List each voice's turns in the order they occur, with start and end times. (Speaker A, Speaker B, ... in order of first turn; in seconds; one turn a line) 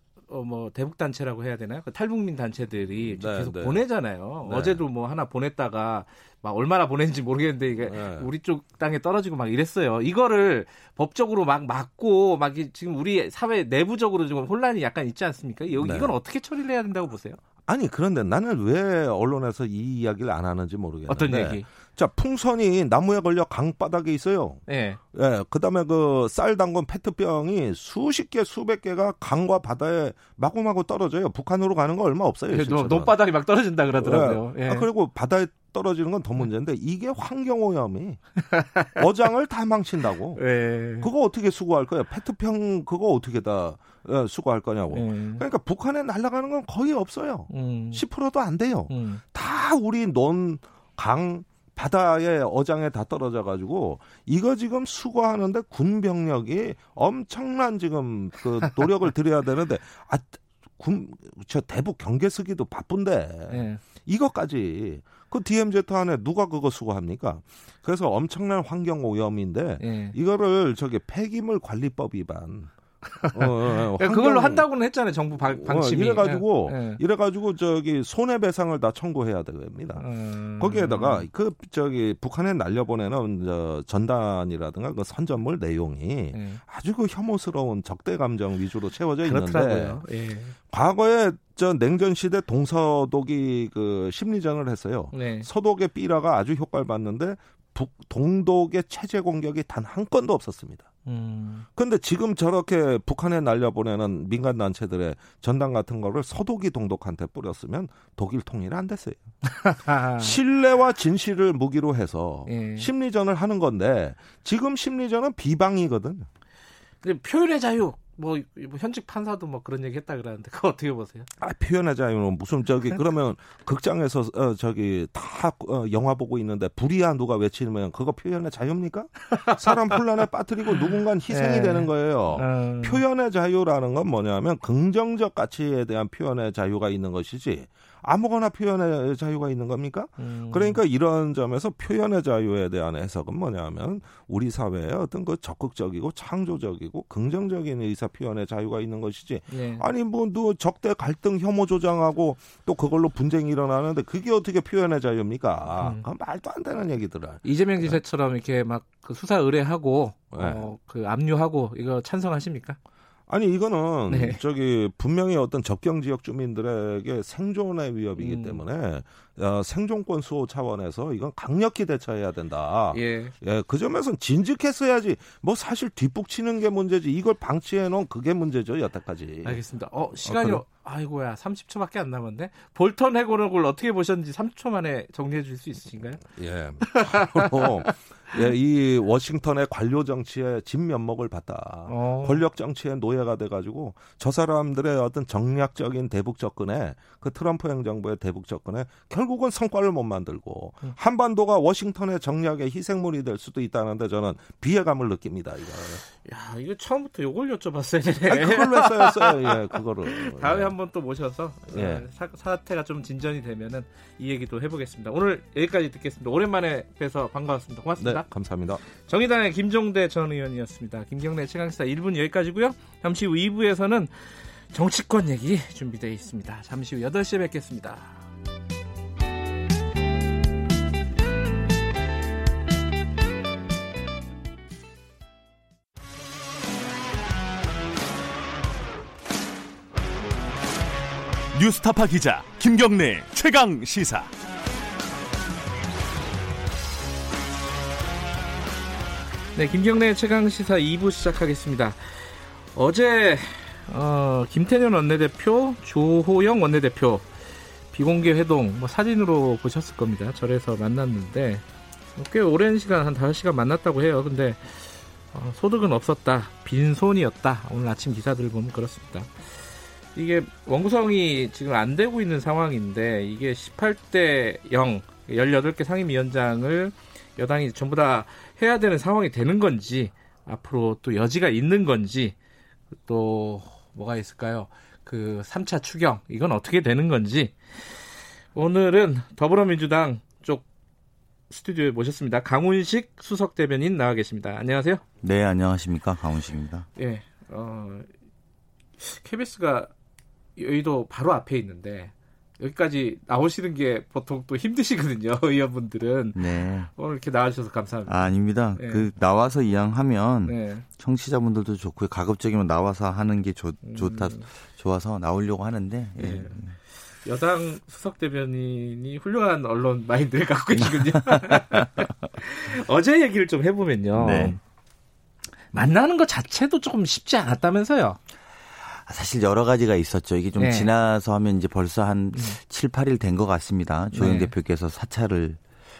Speaker A: 0.3-17.4
Speaker B: 3.0-3.9
Speaker B: 4.4-4.8
Speaker B: 7.8-8.3
Speaker B: 15.8-16.1
Speaker B: 17.6-33.2
Speaker A: 21.1-21.7
Speaker A: 24.7-25.0
Speaker A: 32.5-34.9
Speaker B: 34.0-38.4
Speaker A: 38.4-39.0
Speaker B: 38.9-72.7
Speaker A: 40.4-41.1
Speaker A: 44.9-45.4
Speaker A: 47.5-48.0
Speaker A: 48.9-49.2
Speaker A: 63.5-63.8
Speaker A: 69.8-70.1
Speaker A: 73.1-77.0
Speaker B: 73.3-74.7
Speaker B: 75.4-90.0
Speaker A: 80.0-81.3
Speaker A: 86.3-86.6
Speaker A: 89.2-90.5
Speaker B: 90.6-100.9
Speaker A: 95.1-95.5
Speaker A: 101.0-101.7
Speaker B: 101.7-109.4
Speaker A: 109.4-110.3
Speaker B: 110.1-116.3
Speaker A: 112.5-112.9
Speaker A: 117.0-121.3
Speaker B: 121.4-158.0
Speaker A: 129.3-129.7
Speaker A: 130.8-133.0
Speaker A: 140.2-140.8
Speaker A: 149.5-149.8
Speaker A: 155.8-156.1
Speaker A: 157.4-162.8
Speaker B: 160.3-160.7
Speaker B: 163.3-179.6
Speaker A: 164.1-164.4
Speaker A: 168.2-168.6
Speaker A: 172.9-173.3
Speaker A: 179.4-186.2
Speaker B: 180.2-180.6
Speaker B: 186.2-206.0
Speaker A: 186.8-188.3
Speaker A: 191.9-192.4
Speaker A: 206.2-218.3
Speaker B: 208.3-210.7
Speaker B: 211.7-212.1
Speaker B: 218.0-218.8
Speaker A: 219.1-228.2
Speaker C: 241.5-244.3
Speaker A: 249.5-257.3
Speaker A: 257.9-261.6
Speaker A: 262.1-269.5
Speaker A: 270.1-282.3
Speaker A: 283.0-290.6
Speaker A: 291.5-295.0
Speaker D: 295.2-296.9
Speaker A: 296.9-298.1
Speaker A: 299.0-299.9
Speaker A: 300.6-309.1
Speaker D: 306.3-306.9
Speaker D: 308.1-316.8
Speaker A: 310.4-310.8
Speaker A: 313.8-314.4
Speaker A: 316.2-316.6
Speaker A: 317.1-324.6
Speaker D: 320.8-322.1
Speaker D: 324.1-324.6
Speaker A: 325.7-328.2
Speaker D: 328.8-335.6
Speaker A: 330.6-330.9
Speaker A: 332.3-332.6
Speaker A: 334.1-334.5